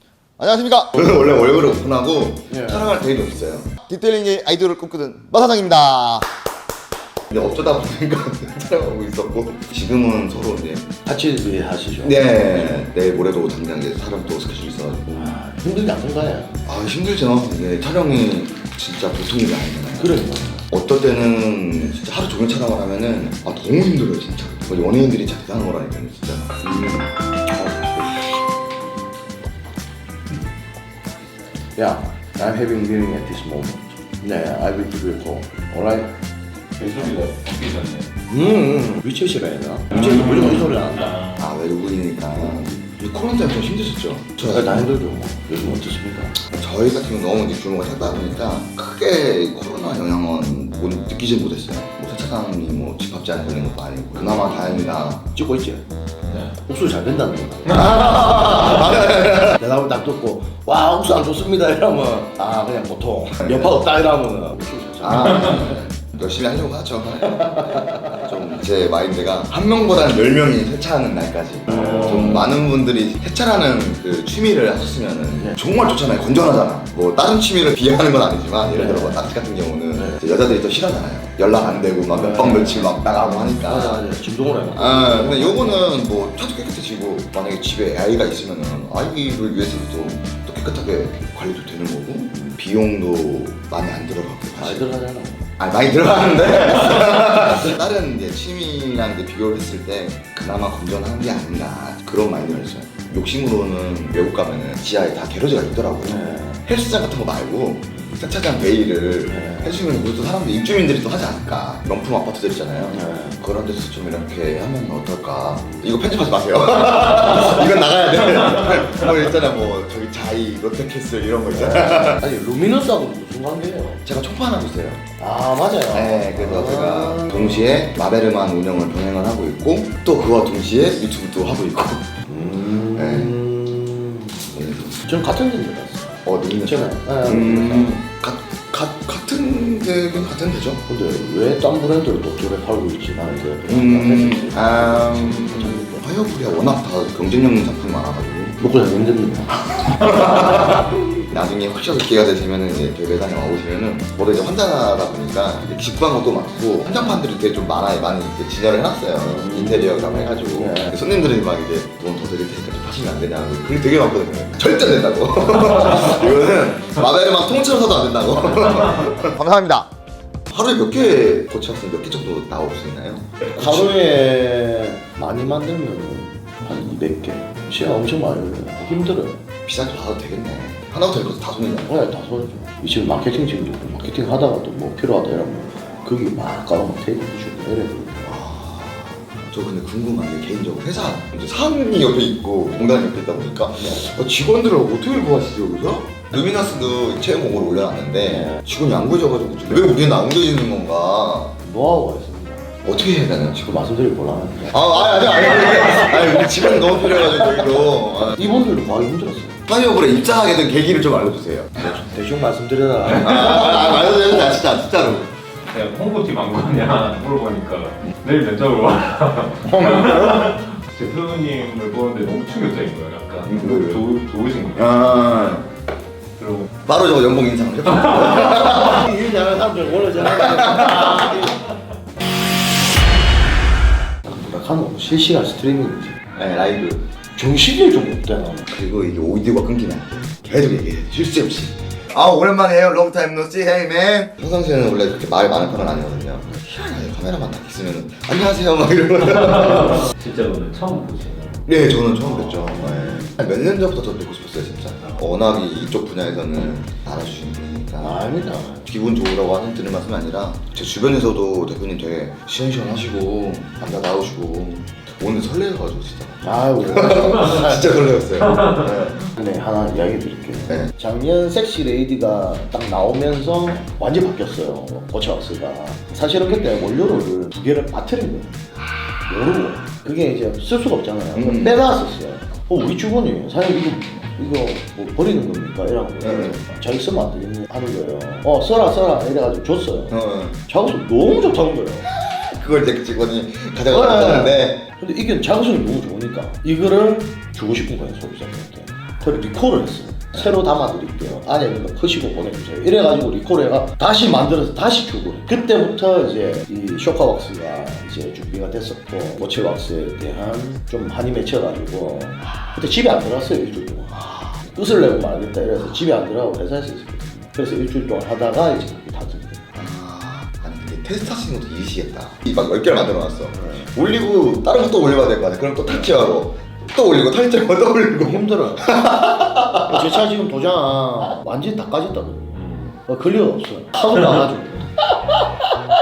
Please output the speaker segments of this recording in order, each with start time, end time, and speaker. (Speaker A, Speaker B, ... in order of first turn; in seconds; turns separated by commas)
Speaker A: 0.4-6.3, Speaker B: 2.5-3.0, Speaker A: 7.3-10.9, Speaker B: 11.1-12.7, Speaker A: 12.0-15.4, Speaker B: 15.1-16.6, Speaker A: 16.6-27.1, Speaker B: 20.0-20.6, Speaker B: 27.5-28.1, Speaker B: 31.8-36.1, Speaker C: 36.8-38.1, Speaker B: 38.3-41.2, Speaker C: 40.0-41.5, Speaker A: 41.3-44.9, Speaker B: 44.5-46.4, Speaker A: 46.4-55.3, Speaker B: 55.3-55.9, Speaker B: 56.4-65.8, Speaker A: 57.7-59.5, Speaker A: 65.0-84.1, Speaker B: 67.3-68.2, Speaker B: 71.7-72.0, Speaker B: 78.7-79.2, Speaker B: 80.0-80.2, Speaker B: 82.1-82.9, Speaker B: 83.5-85.9, Speaker A: 84.7-94.9, Speaker B: 94.6-95.5, Speaker A: 95.6-122.3, Speaker B: 106.0-106.6, Speaker B: 109.3-109.8, Speaker B: 112.9-113.4, Speaker B: 121.5-124.0, Speaker A: 124.0-125.0, Speaker B: 125.2-127.7, Speaker A: 125.9-132.2, Speaker B: 132.3-138.0, Speaker A: 132.9-133.4, Speaker A: 134.5-135.0, Speaker A: 136.2-140.8, Speaker B: 140.9-146.0, Speaker A: 143.7-148.6, Speaker B: 148.6-150.2, Speaker A: 149.9-169.9, Speaker B: 159.2-161.0, Speaker A: 170.5-174.0, Speaker B: 173.5-179.4, Speaker A: 179.7-182.0, Speaker B: 181.9-188.4, Speaker A: 188.2-201.6, Speaker B: 198.3-198.6, Speaker B: 201.6-202.8, Speaker A: 202.8-203.7, Speaker B: 203.5-204.8, Speaker A: 204.7-208.5, Speaker B: 208.3-209.6, Speaker A: 209.7-212.0, Speaker B: 211.8-214.0, Speaker A: 213.1-215.3, Speaker C: 215.7-224.9, Speaker A: 219.8-220.4, Speaker A: 223.5-224.1, Speaker A: 224.7-225.7, Speaker C: 226.4-226.7, Speaker A: 226.8-229.1, Speaker B: 228.1-231.6, Speaker A: 230.2-231.5, Speaker B: 234.2-236.2, Speaker A: 236.3-237.0, Speaker B: 237.3-238.7, Speaker A: 238.7-250.1, Speaker C: 249.8-251.7, Speaker A: 251.7-258.2, Speaker B: 252.5-253.3, Speaker B: 258.0-258.9, Speaker A: 258.9-269.2, Speaker B: 266.4-268.0, Speaker B: 269.1-278.6, Speaker B: 279.3-292.1, Speaker A: 281.4-281.8, Speaker A: 286.2-286.6, Speaker A: 290.1-290.6, Speaker A: 292.1-294.9, Speaker B: 293.9-319.7, Speaker A: 314.2-314.6, Speaker A: 319.7-330.2, Speaker B: 323.6-323.8, Speaker B: 328.2-328.9, Speaker B: 329.9-335.7, Speaker C: 332.5-332.9